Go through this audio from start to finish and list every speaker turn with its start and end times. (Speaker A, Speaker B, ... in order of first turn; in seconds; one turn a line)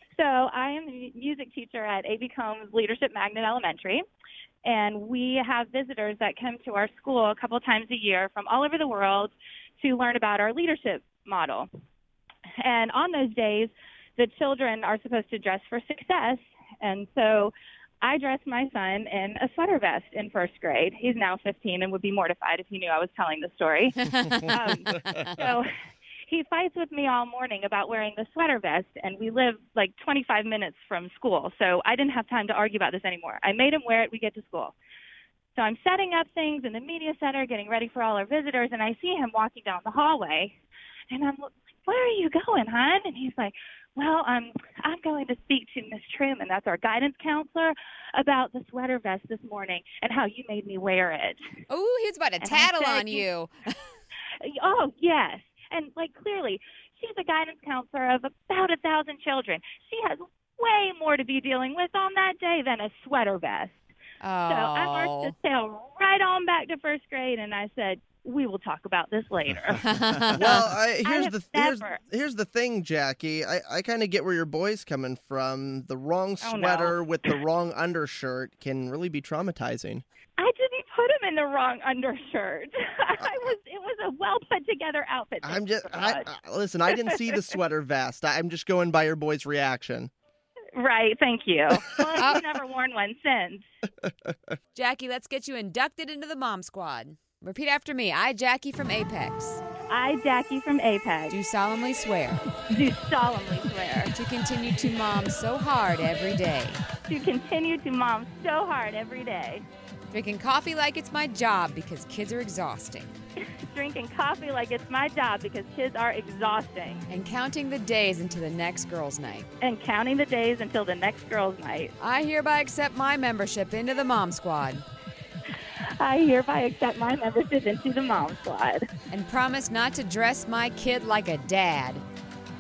Speaker A: 0.1-4.0
Speaker A: 4.7-11.7
Speaker A: 12.6-25.8
Speaker B: 24.1-24.6
Speaker C: 24.5-25.1
Speaker A: 26.3-34.8
Speaker A: 35.6-40.6
Speaker A: 41.1-51.4
Speaker B: 51.7-53.8
Speaker A: 52.4-53.3
Speaker A: 54.4-63.8
Speaker B: 64.2-65.3
Speaker A: 64.5-69.9
Speaker B: 69.8-70.7
Speaker C: 70.2-80.0
Speaker A: 70.4-72.0
Speaker A: 76.4-77.4
Speaker A: 80.4-86.3
Speaker C: 85.4-90.1
Speaker A: 86.9-87.4
Speaker A: 90.8-93.7
Speaker B: 92.2-92.4
Speaker C: 94.0-94.4
Speaker B: 94.8-99.6
Speaker A: 99.9-101.4
Speaker B: 101.3-102.5
Speaker A: 102.7-104.1
Speaker B: 104.1-106.8
Speaker A: 107.1-109.7
Speaker B: 110.1-113.1
Speaker A: 113.4-117.1
Speaker B: 117.1-119.5
Speaker A: 119.6-121.9
Speaker B: 122.0-124.8
Speaker A: 126.0-128.9
Speaker B: 129.1-132.1